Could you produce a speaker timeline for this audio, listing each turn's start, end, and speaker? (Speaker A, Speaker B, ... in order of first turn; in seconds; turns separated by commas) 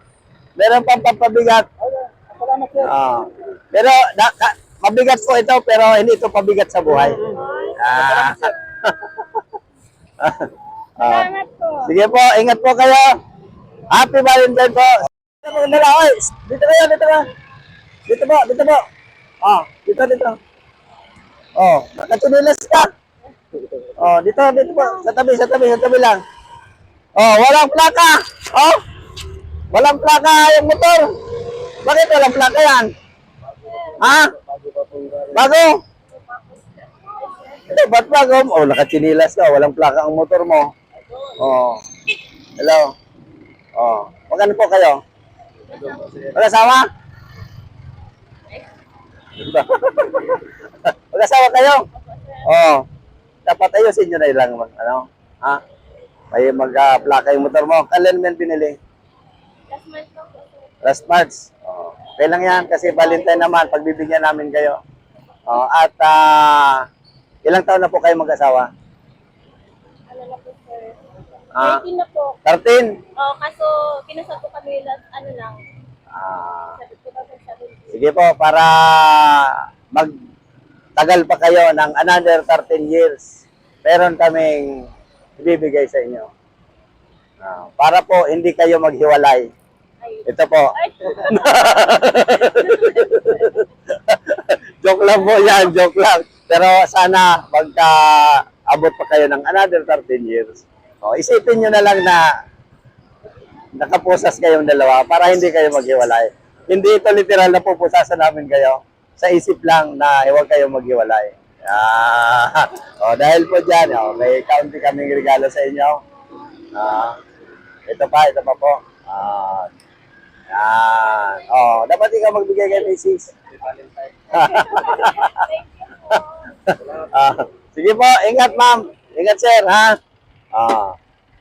Speaker A: 0.6-1.7, Speaker B: 1.8-2.9, Speaker A: 2.8-9.2, Speaker B: 7.0-8.1, Speaker C: 7.2-8.4, Speaker A: 10.2-11.3, Speaker C: 11.0-11.9, Speaker A: 11.8-13.2, Speaker A: 13.9-17.3, Speaker A: 18.1-18.8, Speaker A: 19.4-20.4, Speaker A: 21.6-22.9, Speaker A: 24.0-26.2, Speaker C: 24.6-25.1, Speaker A: 27.1-28.8, Speaker A: 29.7-31.1, Speaker A: 31.8-32.9, Speaker C: 33.7-34.0, Speaker A: 34.0-34.3, Speaker B: 34.4-35.3, Speaker A: 35.3-35.8, Speaker C: 36.1-37.6, Speaker A: 37.7-40.7, Speaker A: 41.4-41.8, Speaker A: 42.6-42.9, Speaker A: 43.8-45.0, Speaker C: 45.7-46.1, Speaker A: 46.1-46.9, Speaker A: 49.4-51.9, Speaker C: 52.0-52.4, Speaker A: 52.4-52.8, Speaker A: 53.5-55.6, Speaker A: 56.3-58.8, Speaker C: 59.7-60.7, Speaker A: 60.8-64.8, Speaker C: 62.8-63.6, Speaker A: 65.5-66.8, Speaker A: 67.4-68.7, Speaker C: 70.1-71.0, Speaker A: 71.5-71.9, Speaker C: 71.6-72.4, Speaker A: 72.4-72.9, Speaker C: 73.2-75.6, Speaker A: 76.1-76.8, Speaker C: 76.8-78.0, Speaker A: 77.9-80.1, Speaker A: 81.0-84.9, Speaker A: 85.4-86.3, Speaker A: 87.4-89.5, Speaker C: 90.0-91.8, Speaker A: 90.2-102.2, Speaker C: 92.4-93.5, Speaker A: 103.8-116.0, Speaker A: 116.7-117.2, Speaker A: 117.9-119.7, Speaker A: 120.5-123.3, Speaker A: 124.3-125.5, Speaker C: 124.3-126.5, Speaker A: 126.7-130.0, Speaker A: 130.5-130.9